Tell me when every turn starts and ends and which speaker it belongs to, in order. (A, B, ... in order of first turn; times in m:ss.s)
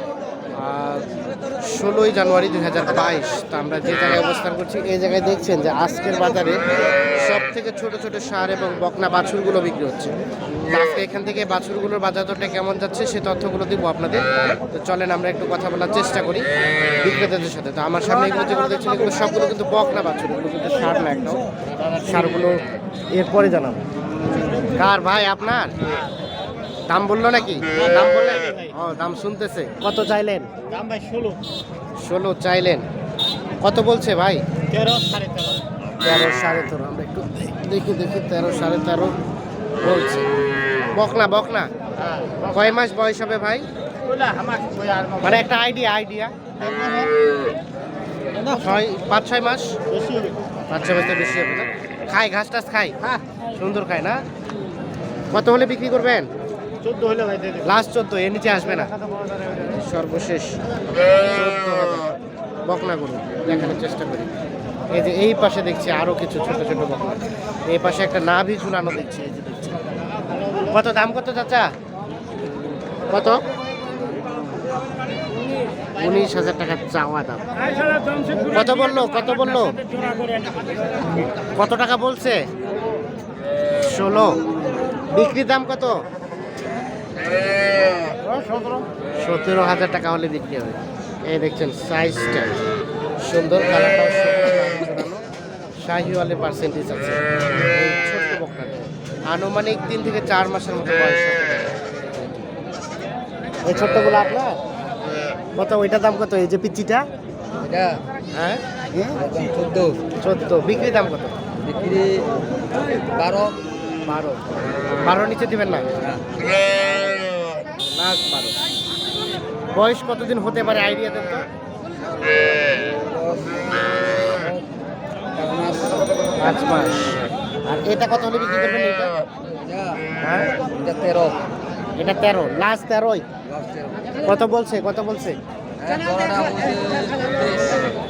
0:00.6-0:23.8 A
0:24.5-0:25.7 A
0:26.9-0:30.5 A
0:30.8-0:31.4 B
0:32.0-0:32.9 A
0:33.6-0:34.4 A
0:34.8-0:35.5 B
0:36.0-0:39.1 A
0:39.8-0:40.3 A
0:40.9-0:41.7 A
0:42.4-0:43.6 A
0:44.4-0:44.9 B
0:45.2-0:46.3 A
0:48.5-0:49.8 A
0:50.7-0:54.2 A
0:55.3-0:56.3 A
0:56.9-0:57.5 B
0:57.6-0:58.9 A
0:59.5-1:04.3 A
1:04.9-1:09.8 A
1:10.7-1:11.7 A
1:13.1-1:13.4 A
1:16.0-1:19.8 A
1:21.4-1:22.4 A
1:23.8-1:24.4 A
1:25.1-1:26.0 A
1:29.2-1:32.6 A
1:33.2-1:35.2 A
1:35.8-1:42.3 A
1:43.6-1:44.6 A
1:45.6-1:47.1 A
1:47.6-1:48.0 C
1:48.3-1:48.6 A
1:48.9-1:50.0 C
1:50.2-1:51.4 A
1:51.6-1:53.6 C
1:54.0-1:54.4 A
1:55.0-1:55.9 A
1:56.0-1:56.4 C
1:57.8-1:58.5 A
1:59.7-2:01.5 A
2:02.8-2:04.6 C
2:05.4-2:06.3 C
2:06.4-2:09.2 A
2:09.6-2:10.0 C
2:10.2-2:10.5 A
2:10.6-2:11.4 C
2:12.0-2:13.2 A
2:13.5-2:14.2 C
2:14.2-2:15.4 A
2:15.8-2:17.9 C